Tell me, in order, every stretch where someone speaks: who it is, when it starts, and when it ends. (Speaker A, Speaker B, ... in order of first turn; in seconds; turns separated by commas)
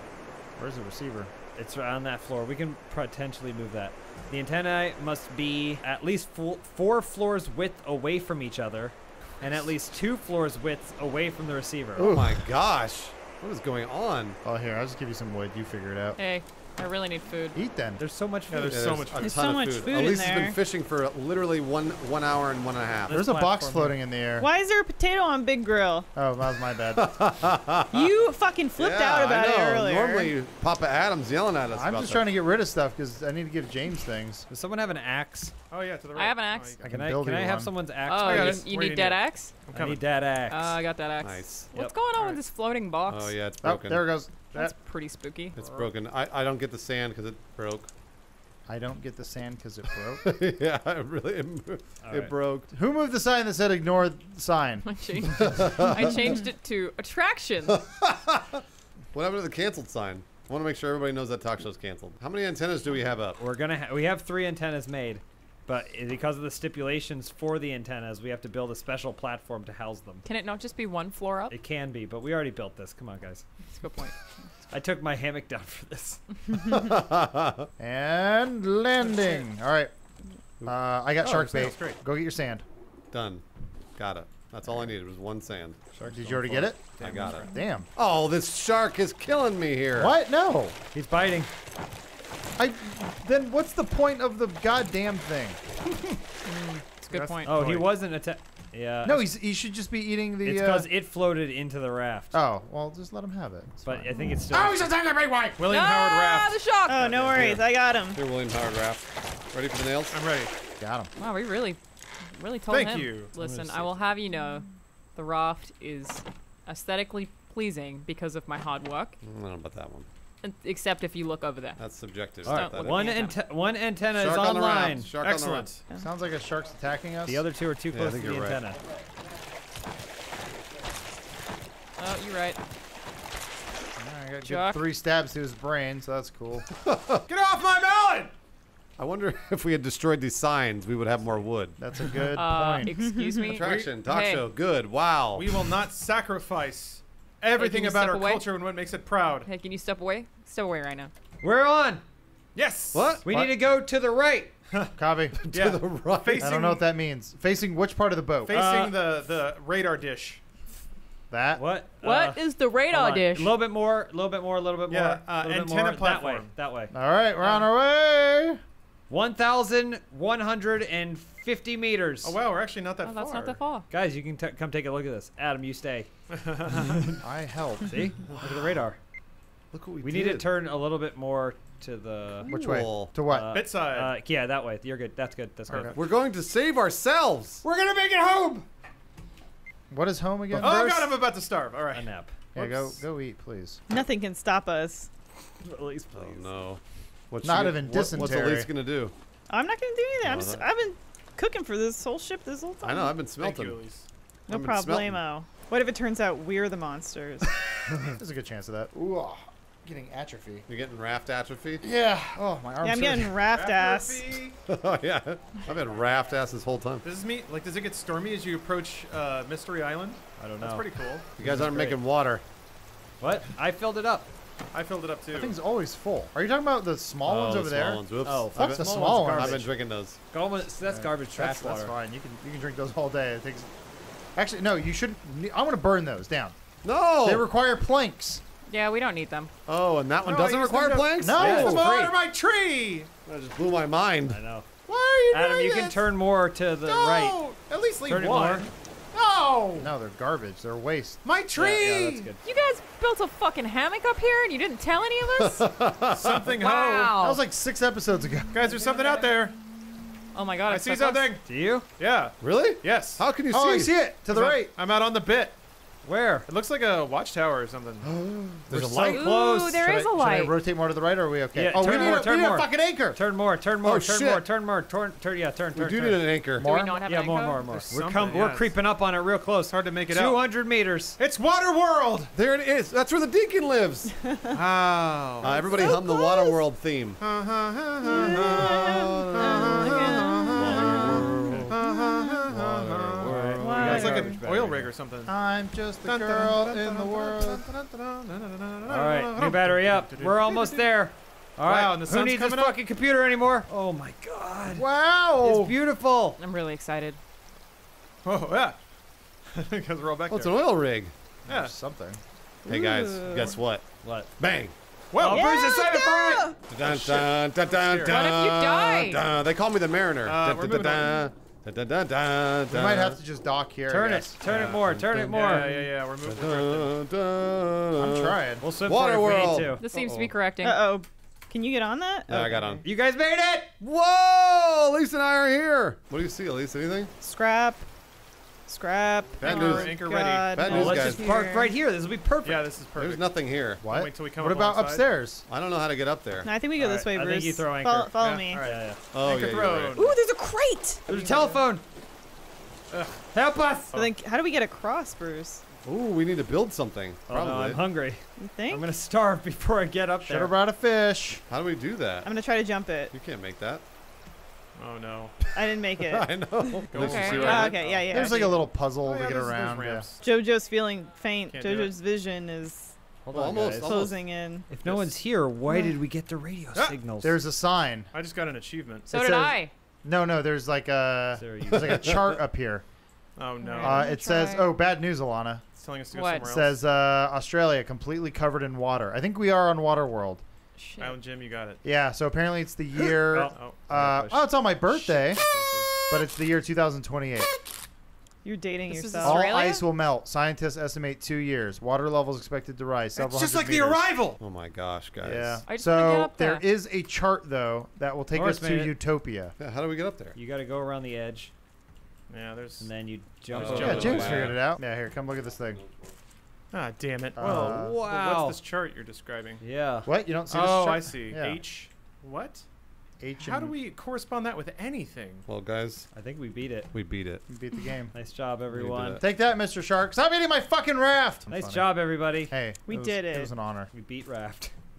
Speaker A: 0.6-1.3, Speaker B: 1.6-12.2, Speaker C: 12.0-14.4, Speaker A: 14.4-16.2, Speaker D: 16.2-17.6, Speaker A: 17.5-18.0, Speaker B: 18.0-19.1, Speaker E: 18.5-19.4, Speaker C: 18.7-23.2, Speaker F: 19.2-20.6, Speaker B: 23.1-24.0, Speaker A: 23.1-24.5, Speaker F: 24.4-26.1, Speaker A: 26.1-27.2, Speaker C: 26.9-28.1, Speaker F: 27.9-30.3, Speaker C: 28.8-32.3, Speaker A: 31.7-34.5, Speaker B: 34.5-35.5, Speaker E: 35.7-36.8, Speaker D: 36.1-36.8, Speaker A: 36.8-37.7, Speaker B: 36.9-38.7, Speaker D: 38.0-39.6, Speaker E: 38.2-40.0, Speaker B: 39.7-40.8, Speaker D: 40.5-43.4, Speaker C: 41.2-41.7, Speaker E: 42.1-42.5, Speaker C: 43.1-44.1, Speaker A: 43.6-44.7, Speaker D: 44.5-45.6, Speaker C: 45.6-47.9, Speaker E: 45.6-45.9, Speaker A: 48.7-50.3, Speaker C: 50.2-52.7, Speaker B: 52.0-52.4, Speaker A: 52.7-54.9, Speaker D: 54.8-57.9, Speaker C: 55.4-56.0, Speaker C: 57.7-63.4, Speaker B: 63.4-70.2, Speaker D: 70.2-71.5, Speaker B: 71.5-73.4, Speaker D: 73.7-74.2, Speaker B: 74.7-76.2, Speaker C: 76.7-77.7, Speaker A: 77.8-79.9, Speaker E: 79.0-79.5, Speaker A: 80.7-82.7, Speaker E: 81.2-82.0, Speaker C: 83.1-83.4, Speaker C: 84.0-90.2, Speaker B: 85.9-86.7, Speaker A: 86.1-87.9, Speaker E: 87.0-87.5, Speaker A: 90.0-90.8, Speaker B: 90.9-91.5, Speaker A: 92.6-95.6, Speaker D: 96.4-97.6, Speaker E: 97.1-97.9, Speaker B: 97.4-99.3, Speaker A: 99.0-100.9, Speaker B: 100.4-102.3, Speaker A: 102.3-105.6, Speaker B: 103.8-104.9, Speaker E: 105.6-106.6, Speaker D: 105.7-107.6, Speaker F: 106.9-108.2, Speaker E: 107.3-107.6, Speaker C: 107.3-110.2, Speaker E: 110.1-110.5, Speaker A: 110.8-111.1, Speaker D: 111.2-111.8, Speaker D: 112.3-119.2, Speaker E: 112.7-113.3, Speaker B: 113.4-113.9, Speaker C: 119.2-120.1, Speaker D: 120.4-121.8, Speaker C: 121.8-123.2, Speaker D: 122.4-123.4, Speaker B: 122.5-125.1, Speaker C: 124.1-125.7, Speaker E: 125.2-125.8, Speaker A: 126.0-127.5, Speaker B: 127.3-128.8, Speaker C: 127.9-128.6, Speaker D: 132.0-132.6, Speaker A: 134.0-136.7, Speaker D: 134.4-134.8, Speaker C: 136.8-137.2, Speaker E: 137.3-138.3, Speaker C: 139.0-141.8, Speaker A: 141.8-143.0, Speaker D: 142.3-144.5, Speaker F: 142.8-143.6, Speaker C: 143.5-145.7, Speaker E: 143.6-144.0, Speaker E: 145.3-149.5, Speaker D: 147.6-148.5, Speaker D: 149.4-151.1, Speaker B: 151.4-152.0, Speaker E: 152.6-153.1, Speaker C: 152.9-153.6, Speaker B: 153.2-154.5, Speaker A: 155.0-155.4, Speaker C: 155.4-156.6, Speaker E: 155.5-156.9, Speaker A: 156.4-158.8, Speaker E: 158.5-160.4, Speaker B: 158.5-158.9, Speaker A: 161.3-161.7, Speaker B: 161.6-166.9, Speaker D: 162.0-163.6, Speaker E: 164.9-166.5, Speaker A: 166.9-168.6, Speaker B: 169.1-172.4, Speaker E: 172.2-173.6, Speaker D: 173.0-173.9, Speaker B: 173.9-176.1, Speaker E: 176.3-177.0, Speaker B: 176.6-177.2, Speaker A: 177.2-177.9, Speaker B: 177.8-179.0, Speaker C: 178.3-178.6, Speaker C: 179.7-180.5, Speaker B: 180.0-182.6, Speaker C: 182.5-183.1, Speaker A: 182.5-183.6, Speaker B: 183.2-186.0, Speaker E: 183.5-184.2, Speaker A: 185.7-186.0, Speaker C: 185.9-187.6, Speaker B: 187.6-188.7, Speaker A: 189.9-191.2, Speaker E: 190.5-192.1, Speaker B: 191.9-192.3, Speaker A: 192.6-193.8, Speaker F: 193.9-195.1, Speaker B: 195.6-196.5, Speaker C: 196.1-199.1, Speaker A: 197.4-198.7, Speaker F: 199.5-203.2, Speaker C: 200.2-200.7, Speaker C: 202.8-203.8, Speaker E: 203.3-204.1, Speaker F: 204.5-207.5, Speaker C: 204.5-205.2, Speaker A: 208.0-210.7, Speaker C: 210.7-211.8, Speaker A: 211.8-213.4, Speaker F: 212.8-214.3, Speaker E: 213.4-214.6, Speaker C: 214.7-217.1, Speaker E: 217.0-221.8, Speaker B: 220.4-220.9, Speaker C: 221.4-222.4, Speaker B: 221.4-221.9, Speaker B: 223.2-224.3, Speaker E: 224.7-225.6, Speaker A: 225.3-229.7, Speaker C: 227.2-230.2, Speaker B: 228.2-229.7, Speaker B: 230.3-231.9, Speaker A: 230.9-233.7, Speaker A: 234.4-236.6, Speaker C: 236.8-237.4, Speaker A: 237.2-238.4, Speaker D: 238.7-239.5, Speaker C: 239.7-241.6, Speaker E: 240.2-243.1, Speaker A: 241.2-242.2, Speaker B: 241.4-241.8, Speaker C: 243.3-244.4, Speaker B: 244.3-244.7, Speaker E: 244.9-246.0, Speaker B: 245.3-247.4, Speaker E: 246.9-249.9, Speaker B: 248.1-248.7, Speaker A: 249.8-251.2, Speaker E: 251.2-252.3, Speaker B: 251.6-252.4, Speaker D: 252.4-255.7, Speaker C: 255.3-256.5, Speaker E: 256.1-257.2, Speaker D: 256.6-257.4, Speaker A: 257.2-258.9, Speaker E: 258.5-259.6, Speaker D: 260.3-261.3, Speaker E: 260.7-261.4, Speaker B: 261.4-261.9, Speaker E: 262.0-263.3, Speaker C: 262.4-264.0, Speaker A: 263.5-264.7, Speaker E: 264.2-265.6, Speaker B: 266.1-266.5, Speaker E: 266.5-268.1, Speaker C: 268.0-269.2, Speaker B: 268.7-269.8, Speaker A: 268.7-273.2, Speaker D: 269.1-270.6, Speaker B: 271.5-276.3, Speaker E: 271.8-272.1, Speaker C: 273.8-274.4, Speaker C: 275.7-276.7, Speaker A: 276.6-277.0, Speaker D: 276.6-277.7, Speaker B: 277.1-281.2, Speaker E: 277.7-278.8, Speaker E: 279.7-280.4, Speaker E: 281.2-282.3, Speaker C: 282.3-284.1, Speaker F: 284.2-284.5, Speaker E: 284.5-286.0, Speaker C: 285.4-287.2, Speaker F: 285.6-286.6, Speaker E: 287.2-295.3, Speaker F: 288.1-291.1, Speaker C: 288.2-290.0, Speaker C: 290.6-291.8, Speaker A: 291.0-291.7, Speaker C: 292.5-293.7, Speaker B: 293.2-294.9, Speaker F: 293.6-294.4, Speaker A: 295.3-297.6, Speaker E: 296.0-300.9, Speaker B: 298.9-306.4, Speaker E: 301.6-302.8, Speaker A: 304.7-305.8, Speaker D: 306.4-307.2, Speaker E: 308.2-308.8, Speaker E: 309.5-310.8, Speaker C: 310.3-311.1, Speaker A: 311.5-312.2, Speaker E: 311.5-311.7, Speaker F: 312.6-313.6, Speaker C: 312.7-313.9, Speaker B: 314.0-314.3, Speaker C: 314.4-314.8, Speaker E: 315.1-318.2, Speaker B: 315.2-316.1, Speaker F: 315.2-316.6, Speaker C: 316.7-323.2, Speaker D: 318.1-319.2, Speaker E: 320.2-321.3, Speaker A: 322.7-324.4, Speaker B: 323.9-325.9, Speaker E: 324.4-327.0, Speaker C: 326.2-330.3, Speaker A: 328.0-328.6, Speaker B: 328.6-329.9, Speaker D: 329.8-330.9, Speaker F: 330.6-332.5, Speaker C: 332.3-332.9, Speaker E: 332.5-332.8, Speaker B: 332.8-333.7, Speaker C: 333.8-337.1, Speaker F: 337.2-337.9, Speaker F: 338.7-341.6, Speaker C: 339.4-341.2, Speaker E: 339.4-340.6, Speaker B: 340.7-342.7, Speaker D: 340.7-341.7, Speaker E: 342.4-345.1, Speaker C: 343.0-343.9, Speaker A: 343.8-345.4, Speaker C: 345.5-346.5, Speaker F: 346.4-348.6, Speaker B: 346.8-349.0, Speaker E: 348.2-350.2, Speaker C: 349.1-350.0, Speaker F: 349.9-351.3, Speaker B: 351.1-351.8, Speaker E: 351.3-351.6, Speaker E: 352.9-353.2, Speaker B: 353.3-353.9, Speaker E: 353.9-354.2, Speaker F: 353.9-355.6, Speaker C: 355.8-357.9, Speaker B: 357.3-360.6, Speaker F: 358.4-358.9, Speaker A: 360.3-361.4, Speaker C: 361.5-362.3, Speaker F: 362.2-363.1, Speaker C: 363.1-363.8, Speaker E: 364.8-365.4, Speaker F: 365.5-368.7, Speaker C: 366.0-367.8, Speaker E: 366.9-370.4, Speaker D: 366.9-367.8, Speaker A: 368.0-370.1, Speaker F: 370.2-372.9, Speaker E: 371.5-372.0, Speaker B: 373.2-374.1, Speaker C: 373.3-374.2, Speaker F: 373.8-374.7, Speaker B: 374.7-377.4, Speaker E: 374.7-375.2, Speaker A: 377.2-378.1, Speaker E: 378.1-379.1, Speaker D: 379.1-379.7, Speaker A: 379.1-382.8, Speaker B: 381.4-382.2, Speaker E: 383.4-384.1, Speaker D: 383.6-384.7, Speaker A: 383.8-385.6, Speaker E: 385.7-386.8, Speaker D: 386.1-386.5, Speaker A: 386.4-390.4, Speaker D: 390.8-391.2, Speaker E: 391.0-391.8, Speaker A: 391.8-395.4, Speaker E: 393.0-393.8, Speaker B: 393.3-395.7, Speaker E: 395.4-395.9, Speaker A: 396.1-397.5, Speaker F: 398.4-399.5, Speaker D: 398.9-399.9, Speaker A: 399.2-404.1, Speaker E: 403.2-404.4, Speaker C: 404.4-405.6, Speaker A: 405.2-409.6, Speaker D: 405.6-406.7, Speaker B: 408.3-409.0, Speaker C: 409.6-410.4, Speaker B: 410.4-411.5, Speaker E: 412.3-412.9, Speaker B: 412.8-414.6, Speaker C: 413.5-414.6, Speaker E: 413.6-414.4, Speaker A: 413.7-415.8, Speaker C: 415.7-416.1, Speaker E: 416.7-419.6, Speaker A: 417.4-418.0, Speaker B: 417.4-418.6, Speaker B: 419.6-420.1, Speaker A: 420.1-421.6, Speaker E: 420.5-422.6, Speaker A: 423.2-423.8, Speaker E: 423.4-425.4, Speaker C: 425.5-426.1, Speaker B: 426.1-426.9, Speaker C: 426.9-427.4, Speaker A: 427.5-428.1, Speaker B: 428.1-429.2, Speaker C: 428.7-429.2, Speaker A: 429.2-433.9, Speaker B: 431.5-432.6, Speaker F: 432.9-433.5, Speaker B: 433.9-434.7